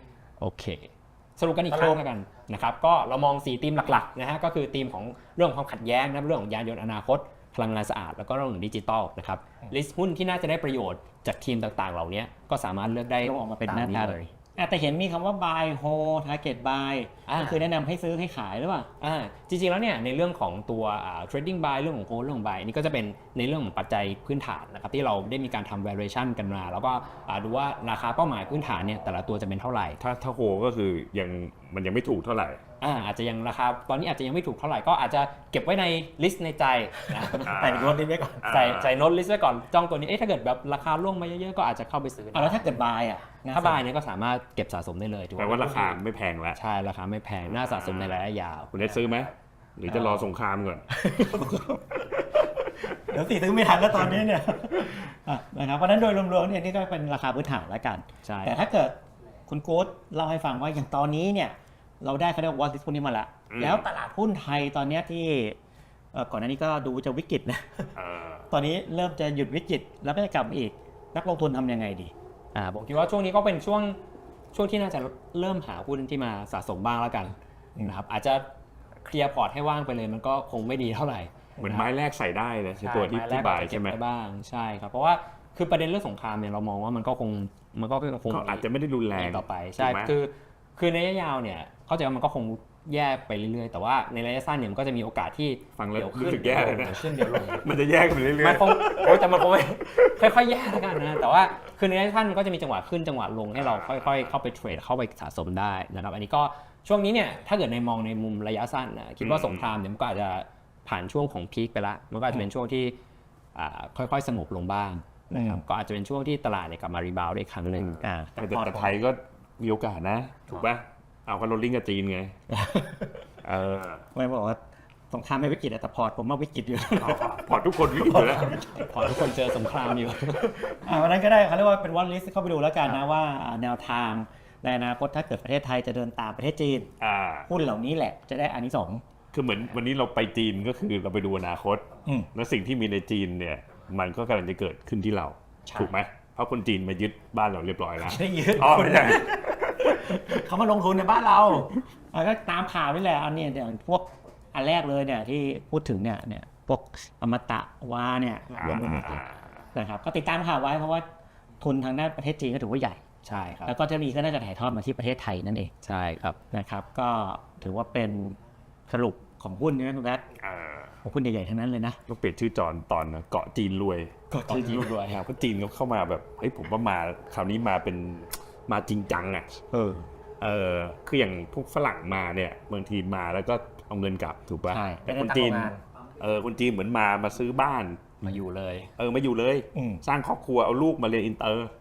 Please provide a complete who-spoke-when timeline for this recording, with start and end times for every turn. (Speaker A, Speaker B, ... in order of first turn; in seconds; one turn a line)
Speaker A: 0.4-14.2
Speaker B: 1.7-2.0
Speaker B: 13.2-18.9
Speaker A: 17.3-17.6
Speaker A: 19.0-30.0
Speaker C: 30.0-32.6
Speaker A: 32.8-37.7
Speaker B: 37.2-38.5
Speaker C: 37.4-39.0
Speaker A: 38.5-42.7
Speaker B: 42.3-43.8
Speaker A: 43.5-46.0
Speaker C: 45.4-46.6
Speaker A: 46.5-49.0
Speaker C: 47.5-48.2
Speaker C: 48.7-51.1
Speaker A: 49.9-50.3
Speaker B: 51.0-59.0
Speaker A: 58.2-58.6
Speaker B: 59.5-65.6
Speaker C: 63.5-63.9
Speaker B: 66.1-67.9
Speaker C: 68.0-68.5
Speaker B: 68.5-72.1
Speaker A: 72.5-74.0
Speaker A: 74.5-78.5
Speaker A: 79.0-81.8
Speaker C: 81.6-84.0
Speaker A: 82.8-97.7
Speaker C: 88.3-90.1
Speaker C: 95.8-100.1
Speaker A: 98.4-113.0
Speaker C: 103.6-104.3
Speaker C: 109.2-109.7
Speaker A: 113.5-117.9
Speaker B: 115.3-115.6
Speaker C: 117.8-122.4
Speaker B: 118.0-118.9
Speaker B: 122.5-123.1
Speaker C: 123.4-124.1
Speaker B: 124.2-128.9
Speaker C: 127.0-128.7
Speaker A: 128.7-130.6
Speaker B: 130.4-136.9
Speaker C: 137.0-137.5
Speaker B: 137.5-139.0
Speaker C: 139.3-150.2
Speaker B: 145.7-145.9
Speaker B: 148.0-159.2
Speaker A: 158.6-159.2
Speaker C: 158.7-159.5
Speaker B: 159.8-161.1
Speaker B: 161.6-163.0
Speaker A: 163.2-163.7
Speaker B: 163.7-165.7
Speaker A: 165.8-166.4
Speaker B: 166.5-170.2
Speaker C: 170.4-171.0
Speaker B: 171.0-172.0
Speaker C: 172.1-179.7
Speaker B: 174.3-174.9
Speaker A: 174.3-175.2
Speaker B: 179.7-180.1
Speaker C: 180.4-188.2
Speaker B: 184.7-185.8
Speaker A: 188.2-188.9
Speaker C: 189.0-191.7
Speaker B: 189.7-190.0